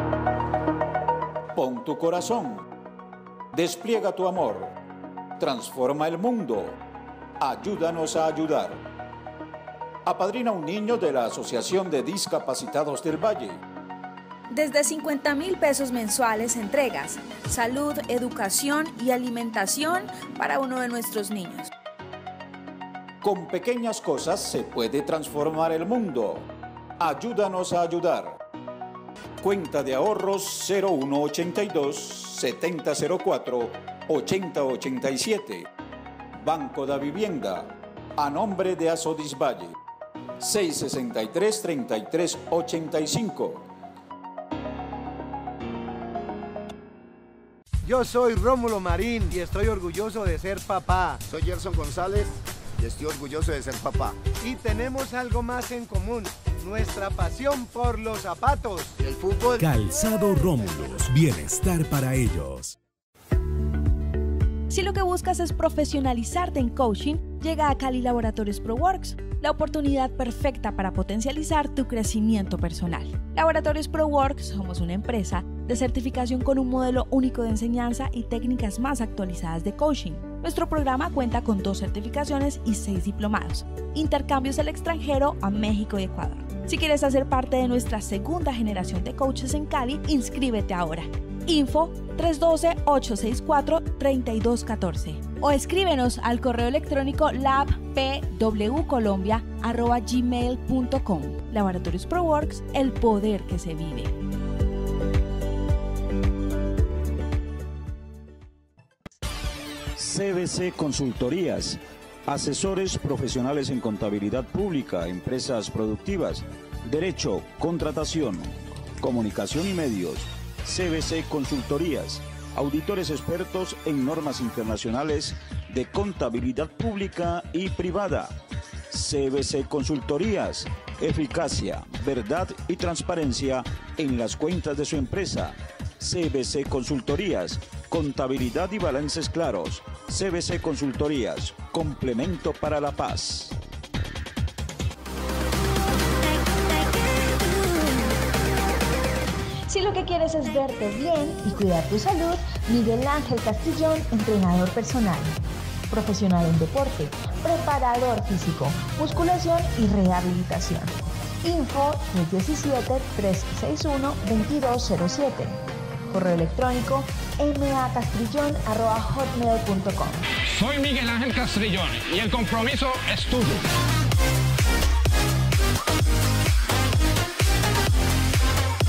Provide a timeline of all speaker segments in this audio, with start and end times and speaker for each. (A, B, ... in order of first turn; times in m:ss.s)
0:01.6-0:02.7 A
0:03.5-0:04.7 A
0:05.4-0:06.8 A
0:07.4-0:08.8 A
0:10.0-0:13.6 A
0:14.5-0:21.7 B
0:23.2-0:26.5 A
0:27.0-0:28.4 A
0:29.4-0:35.7 A
0:36.4-0:39.7 A
0:40.4-0:43.7 A
0:47.8-0:51.2 C
0:51.2-0:54.2 D
0:54.4-0:58.9 C
0:59.0-0:59.6 D
0:59.6-1:02.8 E
1:04.7-1:44.2 B
1:50.0-2:08.4 A
2:08.9-2:23.6 A
2:29.7-2:35.4 B
2:35.9-2:40.9 B
2:41.4-2:45.6 B
2:46.1-2:50.2 B
2:50.4-2:53.7 F